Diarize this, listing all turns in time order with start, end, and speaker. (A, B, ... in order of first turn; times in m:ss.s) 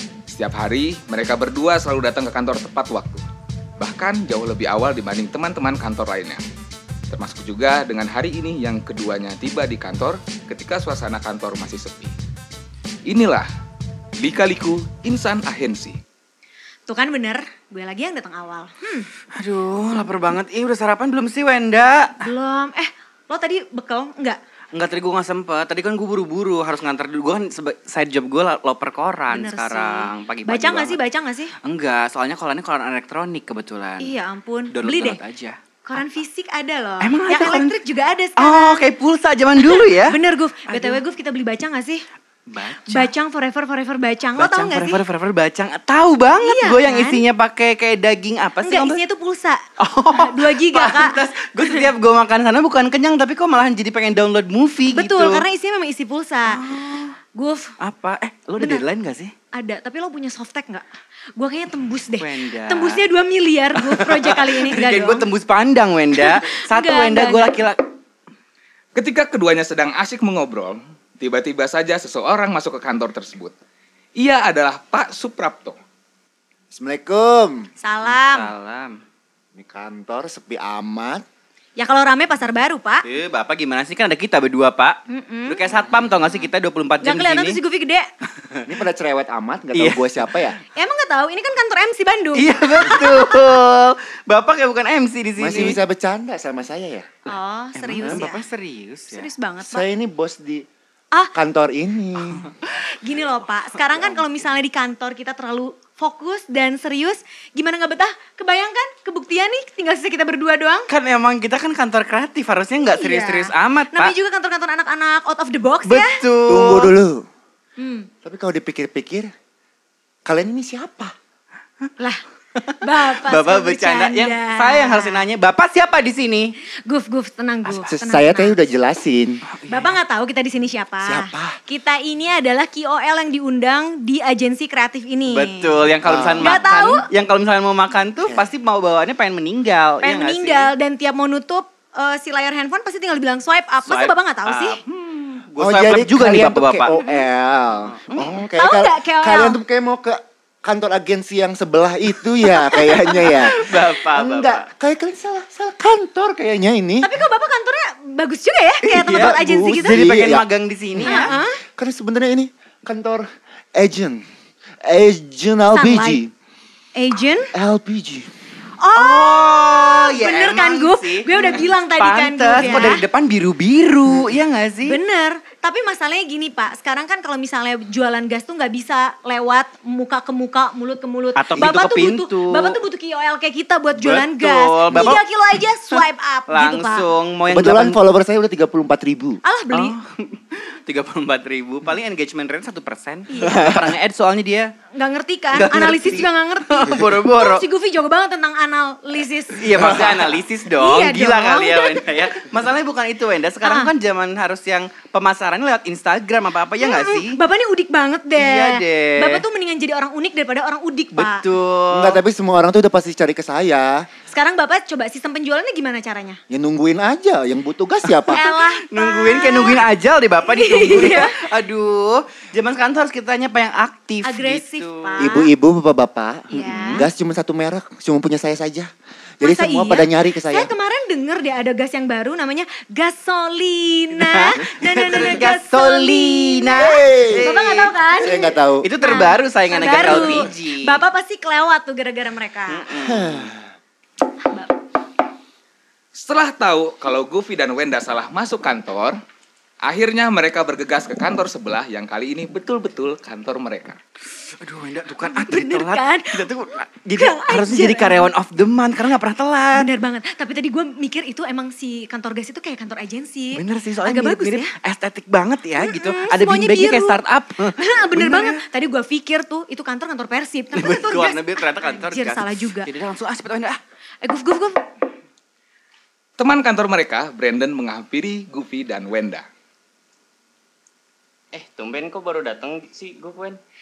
0:00.3-0:03.2 A
0:03.8-0:06.4 A
0:07.1-0:12.1 A
0:13.0-0:13.5 A
0:14.2-0:16.0 A
0:16.9-0:19.1 B
0:19.3-0:22.2 C
0:22.2-0:24.4 B
0:24.7-0:31.0 C
0:29.3-0:31.5 B
0:31.6-0:34.2 C
0:34.0-0:35.2 B
0:34.7-0:35.6 C
0:35.8-0:38.8 B
0:37.0-0:37.8 C
0:38.4-0:41.0 C
0:39.6-0:42.0 B
0:42.5-0:43.1 C
0:42.9-0:45.0 B
0:44.4-0:49.0 C
0:46.4-0:47.2 B
0:48.6-0:51.9 B
0:49.8-0:55.4 C
0:54.9-0:56.6 B
0:56.5-0:57.2 C
0:57.3-0:57.7 B
0:57.8-0:59.3 C
0:58.6-0:58.8 B
0:59.5-1:05.3 B
1:02.2-1:03.0 C
1:03.8-1:07.8 C
1:06.2-1:07.6 B
1:08.9-1:13.5 A
1:14.2-1:15.8 A
1:16.7-1:17.7 D
1:17.8-1:18.5 B
1:18.0-1:19.0 C
1:19.5-1:21.2 D
1:21.8-1:23.0 B
1:23.0-1:27.6 C
1:25.1-1:25.6 B
1:27.0-1:28.1 B
1:28.4-1:28.6 C
1:28.7-1:30.6 D
1:29.7-1:30.6 C
1:30.7-1:33.6 B
1:32.3-1:35.8 C
1:35.4-1:37.1 D
1:37.3-1:38.4 B
1:37.3-1:39.3 C
1:39.1-1:39.8 B
1:39.6-1:40.7 D
1:41.3-1:42.5 D
1:43.0-1:50.9 B
1:50.9-1:54.1 C
1:52.9-1:56.2 B
1:55.8-1:56.9 C
1:56.4-1:57.2 D
1:57.8-1:58.1 B
1:58.2-1:59.3 D
2:00.2-2:01.1 D
2:02.5-2:06.6 C
2:02.8-2:05.2 B
2:06.8-2:08.6 B
2:07.7-2:07.9 C
2:07.9-2:09.4 D
2:09.5-2:09.9 C
2:09.7-2:15.9 B
2:11.0-2:11.6 D
2:15.3-2:20.7 C
2:16.0-2:16.6 D
2:16.4-2:17.1 B
2:18.2-2:18.5 D
2:20.0-2:24.8 B
2:23.8-2:26.9 C
2:25.6-2:37.1 D
2:27.0-2:27.2 B
2:27.9-2:28.3 C
2:28.6-2:29.6 B
2:32.6-2:34.6 C
2:37.0-2:40.1 B
2:38.8-2:41.4 C
2:39.1-2:44.2 D
2:41.0-2:41.6 B
2:44.8-2:46.3 D
2:45.7-2:46.2 B
2:46.9-2:47.5 B
2:47.5-2:48.3 D
2:48.8-2:53.0 B
2:48.9-2:55.0 C
2:52.6-2:52.8 D
2:54.9-3:07.1 B
3:01.3-3:02.8 C
3:04.0-3:05.2 C
3:04.9-3:05.2 D
3:05.9-3:08.0 C
3:07.5-3:09.4 D
3:09.4-3:10.0 B
3:09.7-3:14.7 C
3:13.3-3:13.8 B
3:14.9-3:20.1 B
3:15.5-3:17.6 C
3:19.6-3:27.4 C
3:20.7-3:22.4 B
3:23.6-3:23.9 B
3:26.8-3:31.4 B
3:28.3-3:29.4 C
3:31.1-3:32.2 C
3:31.9-3:34.1 D
3:34.3-3:36.4 B
3:36.5-3:38.4 D
3:38.1-3:45.3 C
3:38.3-3:39.8 B
3:40.4-3:41.4 B
3:44.2-3:45.5 B
3:45.2-3:50.7 D
3:46.5-3:47.0 B
3:46.5-3:47.0 C
3:49.4-4:02.8 B
3:54.2-3:58.0 C
3:56.7-3:58.9 D
3:58.8-4:01.0 C
4:02.7-4:03.5 C
4:03.0-4:03.6 D
4:04.4-4:04.7 B
4:06.1-4:09.2 A
4:09.8-4:14.0 A
4:14.4-4:19.9 C
4:15.2-4:16.5 B
4:17.1-4:18.3 B
4:19.7-4:24.7 B
4:23.5-4:28.6 C
4:25.8-4:27.2 B
4:27.8-4:32.9 B
4:30.7-4:33.8 C
4:34.2-4:34.8 B
4:36.4-4:39.4 A
4:41.5-4:43.6 E